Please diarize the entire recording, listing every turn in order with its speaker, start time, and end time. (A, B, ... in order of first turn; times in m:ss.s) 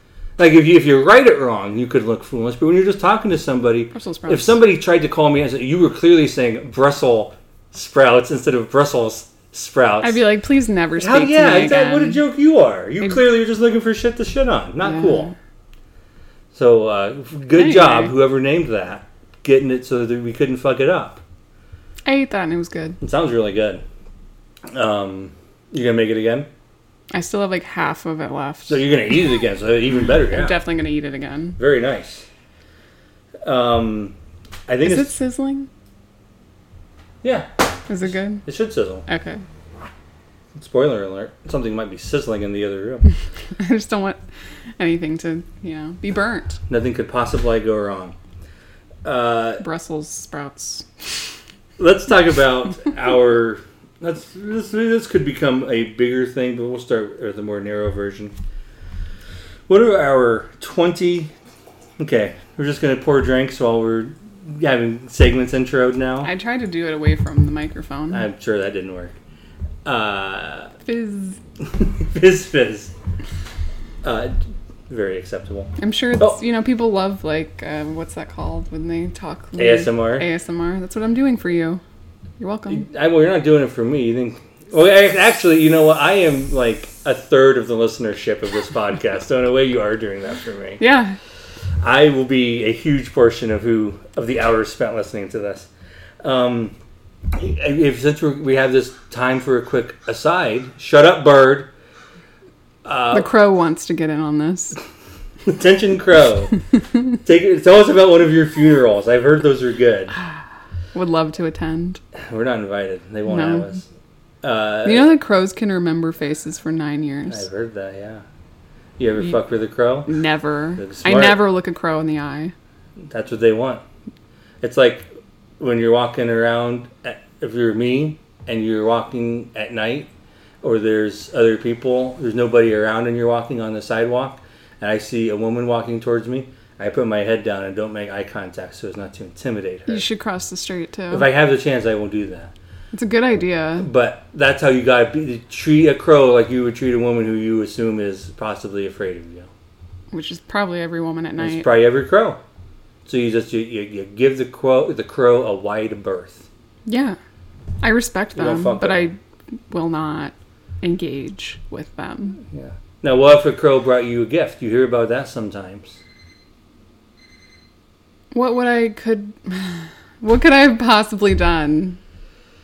0:00.4-0:10.2 A
0:03.9-0:04.6 B
0:10.0-0:12.2 B
0:11.0-0:15.3 A
0:14.9-0:15.3 B
0:16.5-0:21.2 A
0:17.6-0:18.2 B
0:22.0-0:23.0 B
0:23.0-0:23.8 A
0:24.7-0:26.5 A
0:27.1-0:28.8 B
0:28.7-0:30.6 A
0:30.3-0:31.6 B
0:31.6-0:32.3 A
0:33.4-0:34.2 A
0:34.7-0:35.1 A
0:34.8-0:35.7 B
0:37.2-0:37.5 A
0:37.9-0:38.4 B
0:38.4-0:39.1 A
0:39.1-0:39.4 B
0:40.6-0:43.1 A
0:43.6-0:44.2 B
0:44.8-0:46.6 B
0:46.7-0:48.2 A
0:49.0-0:49.6 A
0:49.6-0:50.9 B
0:51.8-0:58.4 A
0:59.7-1:01.3 A
1:02.0-1:06.3 A
1:06.2-1:08.3 B
1:08.1-1:09.2 A
1:09.8-1:10.7 A
1:10.8-1:11.4 B
1:11.7-1:12.9 A
1:14.0-1:14.4 A
1:14.9-1:16.4 A
1:15.8-1:21.8 B
1:19.6-1:20.3 A
1:22.4-1:22.9 B
1:22.7-1:30.8 A
1:30.8-1:31.2 B
1:31.8-1:35.7 A
1:36.2-1:36.8 A
1:37.3-1:41.7 A
1:42.8-1:43.3 A
1:43.1-1:44.8 B
1:45.5-1:50.2 A
1:50.9-1:52.0 B
1:52.2-1:53.9 A
1:53.3-1:53.7 B
1:54.4-1:55.1 A
1:54.8-1:57.5 B
1:57.3-1:58.2 A
1:59.0-2:00.2 A
2:00.1-2:02.5 B
2:00.8-2:01.5 A
2:03.1-2:03.8 A
2:04.6-2:05.1 A
2:05.6-2:10.1 A
2:10.6-2:20.0 A
2:19.9-2:21.3 B
2:21.1-2:22.5 A
2:22.9-2:23.9 B
2:23.8-2:29.5 A
2:30.1-2:31.7 B
2:31.4-2:32.4 A
2:33.1-2:36.5 A
2:36.9-2:37.2 B
2:37.8-2:42.4 B
2:38.4-2:39.1 A
2:42.5-2:46.0 A
2:48.3-2:52.0 B